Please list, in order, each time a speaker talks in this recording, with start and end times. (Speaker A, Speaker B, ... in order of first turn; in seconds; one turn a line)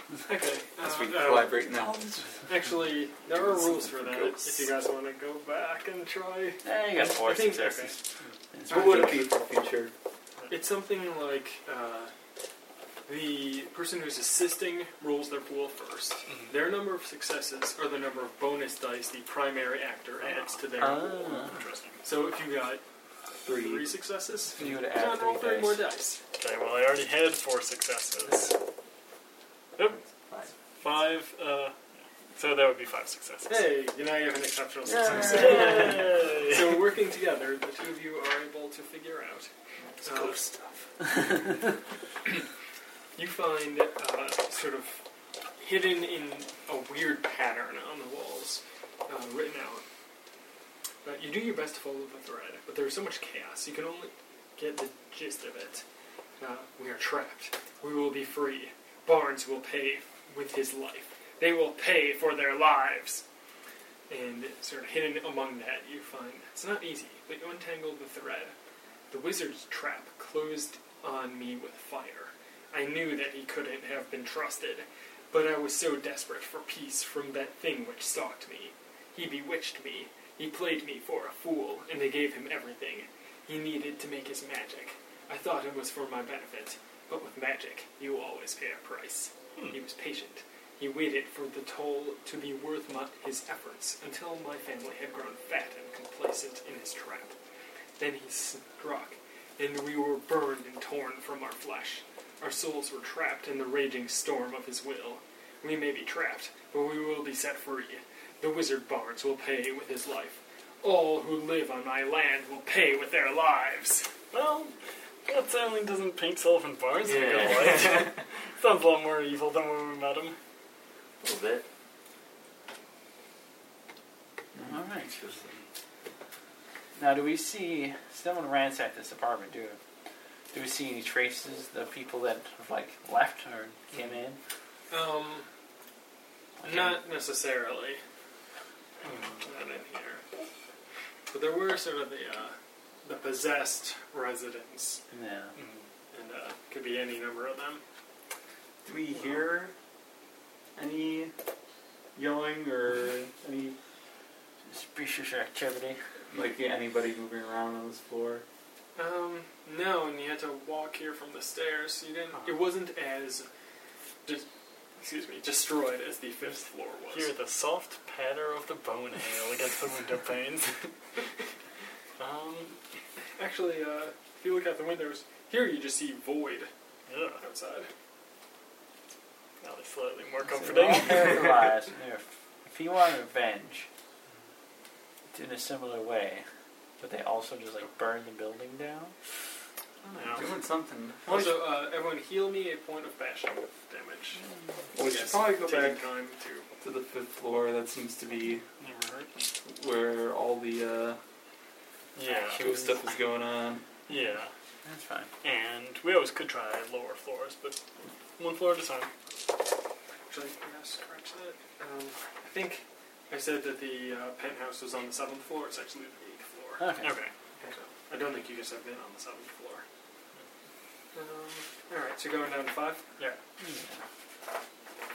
Speaker A: 0.3-1.6
Speaker B: 0.8-2.3
Speaker A: 2.5-8.0
Speaker B: 3.3-4.7
Speaker C: 6.6-8.0
Speaker C: 8.5-9.2
Speaker A: 8.7-9.2
Speaker B: 8.7-9.9
Speaker A: 10.5-12.1
Speaker A: 13.1-21.1
Speaker D: 16.3-16.6
Speaker D: 20.2-22.0
Speaker C: 20.8-21.6
Speaker A: 22.0-22.8
Speaker B: 23.4-23.9
Speaker A: 23.4-26.2
Speaker C: 24.6-25.8
Speaker D: 26.4-28.5
Speaker A: 28.3-28.6
Speaker E: 29.9-30.5
Speaker D: 30.8-31.8
Speaker D: 32.4-33.7
Speaker A: 33.5-39.5
Speaker C: 34.9-36.0
Speaker D: 35.2-36.9
Speaker E: 39.8-40.3
Speaker A: 40.0-40.7
Speaker A: 43.2-45.0
Speaker A: 45.6-49.8
Speaker A: 51.0-55.8
Speaker A: 56.4-63.2
Speaker A: 64.1-68.5
Speaker A: 69.1-97.3
Speaker A: 98.0-114.1
Speaker D: 114.3-114.7
Speaker D: 115.3-120.4
Speaker E: 117.0-118.2
Speaker E: 121.2-121.7
Speaker C: 124.6-125.4
Speaker C: 127.0-129.8
Speaker C: 130.5-134.4
Speaker A: 134.9-135.5
Speaker C: 136.6-137.0
Speaker A: 136.6-138.0
Speaker D: 139.0-139.5
Speaker A: 139.4-140.2
Speaker A: 141.3-145.0
Speaker C: 145.1-145.6
Speaker D: 145.6-145.9
Speaker A: 146.1-147.8
Speaker B: 148.8-149.7
Speaker B: 150.8-151.3
Speaker B: 152.2-153.8
Speaker C: 154.7-156.0
Speaker B: 156.3-158.4
Speaker A: 159.0-163.5
Speaker A: 165.0-167.3
Speaker D: 167.1-170.9
Speaker D: 172.2-172.8
Speaker A: 173.4-176.7
Speaker D: 177.1-177.4
Speaker A: 177.4-177.9
Speaker D: 179.6-181.7
Speaker C: 180.4-183.9
Speaker C: 185.3-186.5
Speaker C: 187.0-189.1
Speaker D: 190.0-190.5
Speaker B: 190.3-191.7
Speaker A: 191.3-194.4
Speaker B: 194.9-196.1
Speaker A: 195.0-196.7
Speaker B: 196.8-198.6
Speaker D: 198.8-199.3
Speaker B: 199.6-201.2
Speaker D: 202.2-202.7
Speaker C: 202.3-203.0
Speaker B: 202.5-203.9
Speaker D: 204.1-204.5
Speaker C: 204.8-205.3
Speaker D: 205.4-207.8
Speaker D: 208.4-209.1
Speaker A: 210.3-216.9
Speaker C: 216.8-217.1
Speaker D: 217.0-217.3
Speaker A: 217.6-219.8
Speaker A: 221.1-223.1
Speaker C: 223.6-224.0